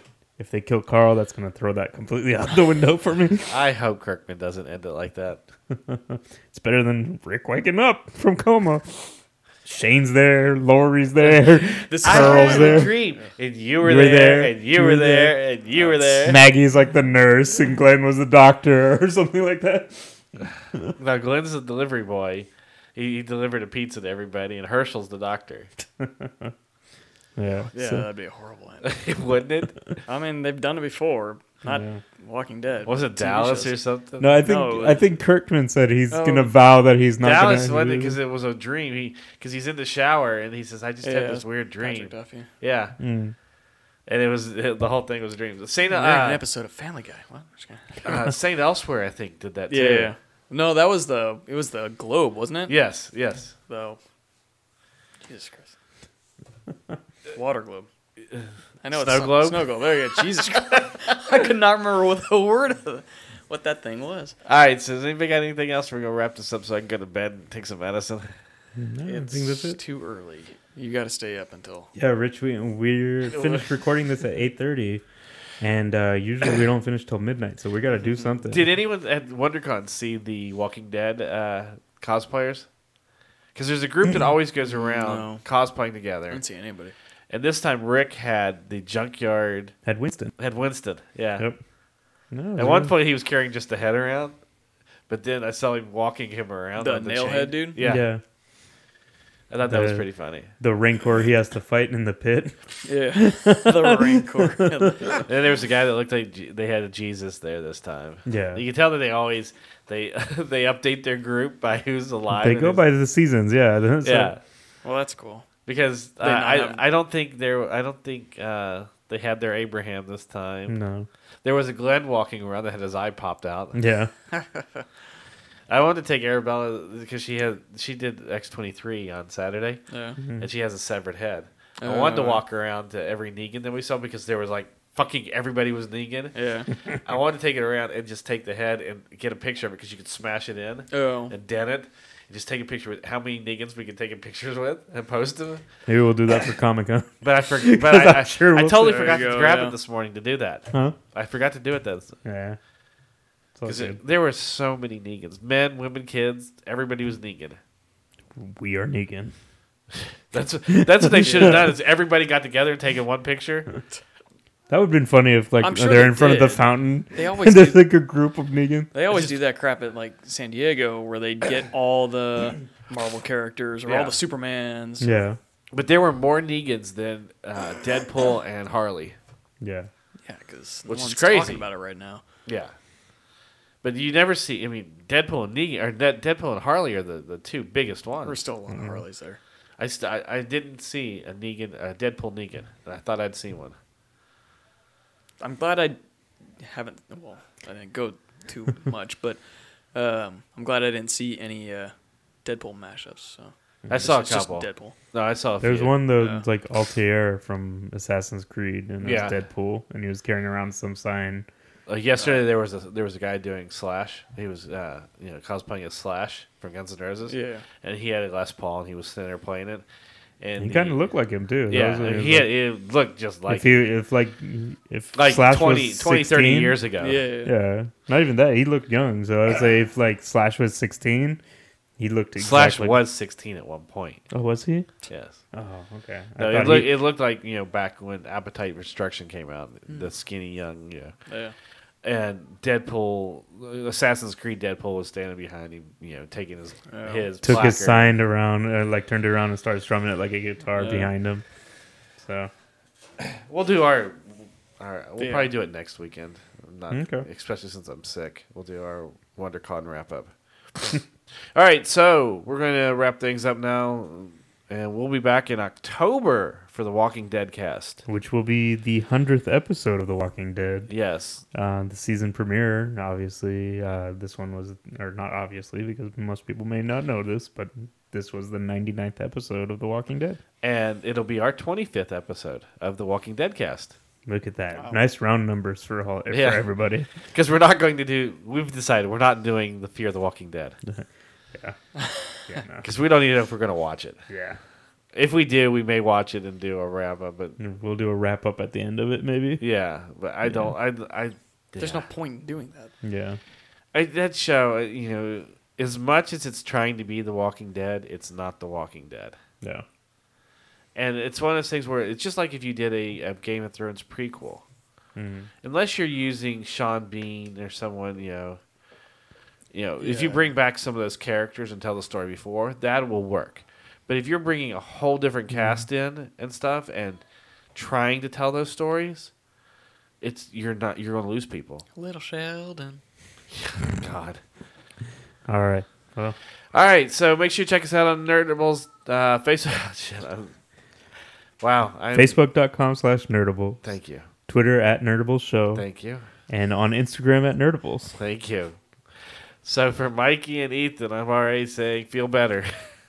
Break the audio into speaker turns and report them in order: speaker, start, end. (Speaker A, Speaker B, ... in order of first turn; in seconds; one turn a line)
Speaker A: 0.4-3.6
Speaker B: 3.5-5.4
Speaker A: 5.7-13.0
Speaker C: 11.2-13.3
Speaker B: 12.0-16.4
Speaker A: 13.8-15.3
Speaker C: 15.7-16.3
Speaker A: 16.2-20.2
Speaker B: 21.0-25.7
Speaker A: 26.0-26.5
Speaker A: 27.4-28.1
Speaker C: 27.7-28.9
Speaker B: 28.8-29.8
Speaker C: 30.1-35.1
Speaker A: 31.6-32.0
Speaker B: 32.9-34.3
Speaker A: 34.2-38.2
Speaker C: 36.1-36.5
Speaker B: 37.2-43.0
Speaker C: 41.0-42.5
Speaker A: 43.0-43.3
Speaker B: 44.1-46.4
Speaker C: 45.9-48.2
Speaker B: 48.0-50.1
Speaker C: 49.7-52.7
Speaker B: 52.7-53.5
Speaker C: 53.7-54.0
Speaker C: 55.2-55.7
Speaker C: 57.3-57.9
Speaker B: 58.3-60.0
Speaker C: 58.8-64.3
Speaker B: 60.5-60.9
Speaker B: 64.5-68.3
Speaker A: 68.8-69.8
Speaker C: 69.0-71.9
Speaker A: 72.0-75.0
Speaker A: 75.6-78.7
Speaker B: 78.5-82.7
Speaker B: 83.5-86.4
Speaker C: 84.7-85.5
Speaker C: 86.3-86.9
Speaker B: 87.3-89.7
Speaker A: 89.8-90.3
Speaker B: 90.4-91.5
Speaker A: 92.3-92.9
Speaker B: 92.6-94.4
Speaker B: 95.1-98.1
Speaker C: 96.8-97.8
Speaker A: 97.8-98.2
Speaker B: 99.5-100.5
Speaker A: 99.7-105.2
Speaker C: 102.9-105.3
Speaker B: 105.3-112.8
Speaker A: 108.2-108.6
Speaker A: 112.3-114.3
Speaker B: 114.0-114.4
Speaker C: 114.8-115.5
Speaker B: 115.7-120.8
Speaker C: 116.2-116.8
Speaker A: 120.7-121.1
Speaker B: 121.4-123.8
Speaker A: 123.7-124.1
Speaker C: 124.3-124.8
Speaker B: 125.7-129.8
Speaker C: 129.9-130.2
Speaker A: 130.2-130.5
Speaker B: 130.4-136.3
Speaker C: 131.8-132.4
Speaker C: 136.3-136.7
Speaker B: 137.0-145.7
Speaker C: 140.9-141.3
Speaker A: 145.9-149.2
Speaker B: 147.2-152.1
Speaker C: 148.8-149.8
Speaker A: 150.7-150.9
Speaker A: 152.2-152.6
Speaker A: 153.6-154.0
Speaker B: 153.7-157.6
Speaker A: 158.4-159.3
Speaker B: 160.3-163.7
Speaker A: 160.7-161.7
Speaker C: 161.2-161.6
Speaker A: 164.7-168.9
Speaker C: 165.6-167.9
Speaker C: 168.9-175.1
Speaker B: 173.9-174.2
Speaker A: 175.0-175.4
Speaker B: 175.7-179.2
Speaker A: 179.6-179.9
Speaker C: 180.2-182.2
Speaker B: 180.9-181.6
Speaker B: 182.4-182.7
Speaker B: 183.8-188.4
Speaker C: 188.2-189.4
Speaker A: 188.7-189.0
Speaker B: 189.8-193.7
Speaker C: 195.4-196.0
Speaker C: 196.6-199.4
Speaker C: 199.9-204.9
Speaker B: 203.9-206.0
Speaker A: 205.6-211.5
Speaker C: 206.2-206.4
Speaker B: 209.0-209.4
Speaker B: 211.9-219.9
Speaker C: 212.2-212.4
Speaker C: 217.3-217.7
Speaker B: 220.4-221.1
Speaker A: 220.6-222.5
Speaker B: 221.7-223.7
Speaker A: 223.5-226.8
Speaker B: 225.1-227.2
Speaker C: 227.0-227.5
Speaker A: 227.4-231.4
Speaker A: 232.0-233.0
Speaker B: 232.4-234.2
Speaker A: 234.3-234.9
Speaker B: 235.1-235.4
Speaker A: 235.5-236.9
Speaker B: 236.4-241.1
Speaker C: 241.3-241.6
Speaker B: 242.0-248.1
Speaker C: 246.9-247.3
Speaker A: 247.4-251.4
Speaker C: 250.7-251.1
Speaker A: 252.2-252.5
Speaker B: 253.2-261.0
Speaker C: 255.2-255.5
Speaker A: 256.9-257.3
Speaker B: 261.5-268.0
Speaker A: 268.1-270.9
Speaker B: 270.9-271.4
Speaker A: 271.5-280.4
Speaker B: 280.6-283.9
Speaker A: 284.3-287.1
Speaker C: 284.7-285.0
Speaker B: 286.3-290.8
Speaker A: 290.9-291.8
Speaker C: 292.0-292.2
Speaker A: 292.5-292.9
Speaker B: 292.8-294.2
Speaker A: 294.3-294.6
Speaker B: 295.1-297.6
Speaker A: 297.6-299.6
Speaker B: 299.6-302.1
Speaker A: 300.4-300.7
Speaker C: 301.8-302.9
Speaker A: 303.0-303.4
Speaker B: 303.9-309.4
Speaker B: 310.9-314.6
Speaker A: 315.1-315.5
Speaker B: 315.6-318.6
Speaker B: 319.7-327.2
Speaker C: 320.0-320.4
Speaker A: 325.5-325.8
Speaker B: 327.7-329.3
Speaker B: 330.2-331.8
Speaker C: 331.9-333.0
Speaker B: 333.5-334.4
Speaker A: 335.5-336.4
Speaker B: 336.7-340.5
Speaker B: 341.6-342.4
Speaker A: 342.1-343.8
Speaker B: 343.8-344.3
Speaker A: 344.5-345.8
Speaker B: 345.7-346.2
Speaker A: 346.5-348.1
Speaker B: 348.2-348.8
Speaker B: 349.6-352.7